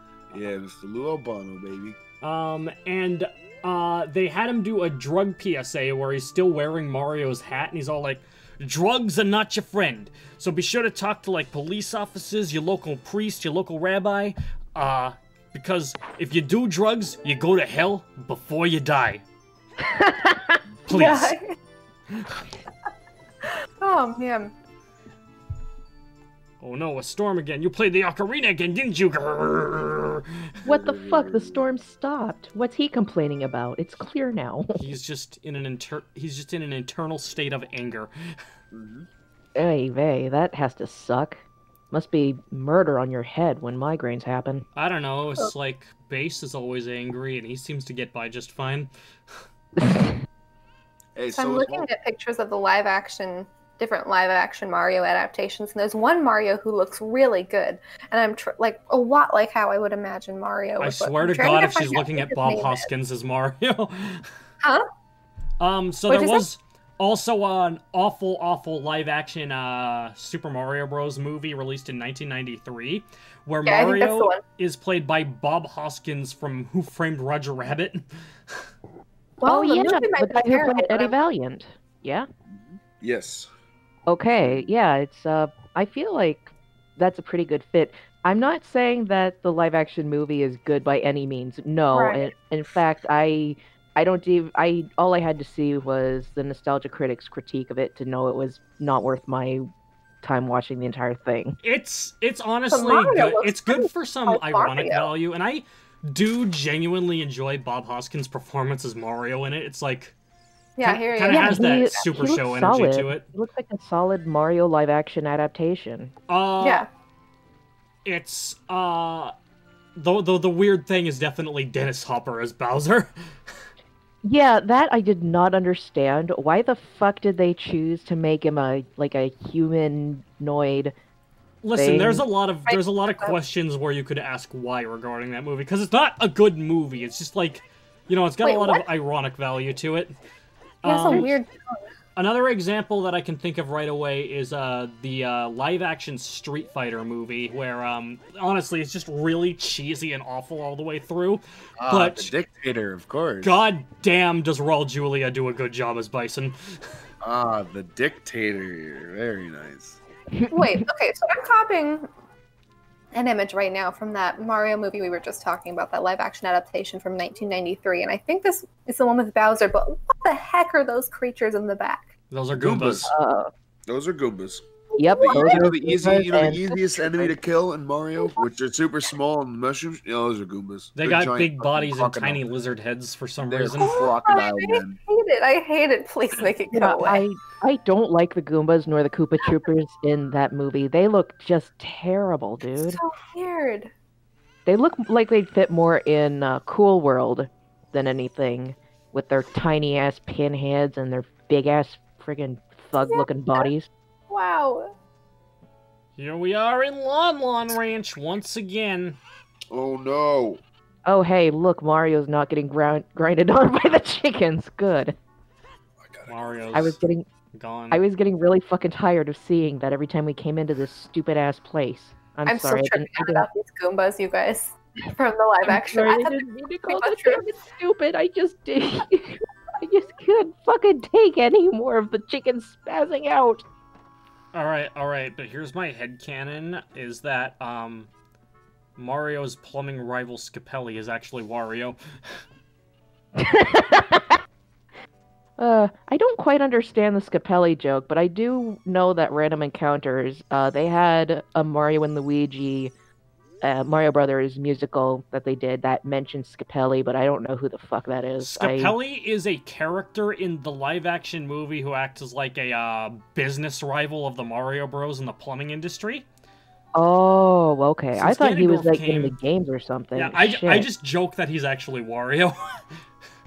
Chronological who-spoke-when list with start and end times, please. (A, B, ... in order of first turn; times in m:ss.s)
0:00.3-0:02.0 A
0:02.2-0:19.2 B
0:19.8-0:20.6 C
0:20.9-0:21.4 B
0:20.9-0:21.4 D
0:22.1-0:22.4 B
0:23.8-0:24.5 D
0:26.6-0:30.3 B
0:30.6-0:31.6 A
0:30.6-0:34.8 C
0:34.8-0:38.1 B
0:38.7-0:39.1 A
0:39.6-0:44.6 C
0:44.8-0:48.9 B
0:49.8-0:50.2 C
0:51.2-0:51.9 A
0:51.3-1:02.9 D
1:00.8-1:04.3 B
1:05.6-1:18.6 B
1:06.1-1:06.4 D
1:13.6-1:14.4 D
1:19.4-1:21.1 D
1:19.4-1:22.3 C
1:22.5-1:23.5 A
1:24.1-1:39.6 C
1:24.4-1:24.7 A
1:31.9-1:32.3 D
1:40.2-1:41.6 C
1:41.6-1:50.2 B
1:42.7-1:45.1 D
1:50.8-1:51.7 D
1:50.8-1:53.3 B
1:51.3-1:56.1 C
1:56.3-1:56.9 B
1:56.6-1:56.9 D
1:58.0-1:59.3 B
2:00.0-2:03.1 B
2:04.2-2:10.9 C
2:11.6-2:20.2 B
2:11.8-2:12.2 C
2:12.7-2:13.4 D
2:18.4-2:18.8 D
2:20.8-2:21.4 B
2:20.8-2:21.9 D
2:22.2-2:32.3 B
2:31.8-2:33.6 A
2:33.4-2:36.8 B
2:37.2-2:40.0 A
2:40.3-2:40.8 C
2:40.5-2:42.1 D
2:43.1-2:52.1 D
2:52.3-2:53.1 B
2:52.5-2:53.1 A
2:53.1-2:53.5 C
2:53.9-2:54.6 A
2:55.0-2:57.4 C
2:55.0-2:55.7 D
2:55.2-3:02.4 A
3:01.0-3:04.0 B
3:03.4-3:05.0 A
3:03.8-3:07.2 D
3:06.7-3:13.0 C
3:12.8-3:13.9 D
3:14.7-3:23.9 C
3:23.0-3:23.7 D
3:24.3-3:25.0 D
3:26.2-3:29.2 B
3:29.7-3:30.6 A
3:31.1-3:35.2 C
3:36.0-3:37.0 A
3:36.3-3:37.0 B
3:36.7-3:37.3 C
3:37.5-3:38.0 B
3:37.9-3:43.5 C
3:42.5-3:47.4 D
3:45.6-3:53.6 C
3:54.5-3:58.1 B
3:59.0-4:02.0 B
4:03.4-4:04.4 C
4:05.6-4:12.9 C
4:13.6-4:19.0 C
4:18.4-4:26.3 B
4:27.0-4:30.9 C
4:28.2-4:29.3 B
4:30.2-4:32.8 B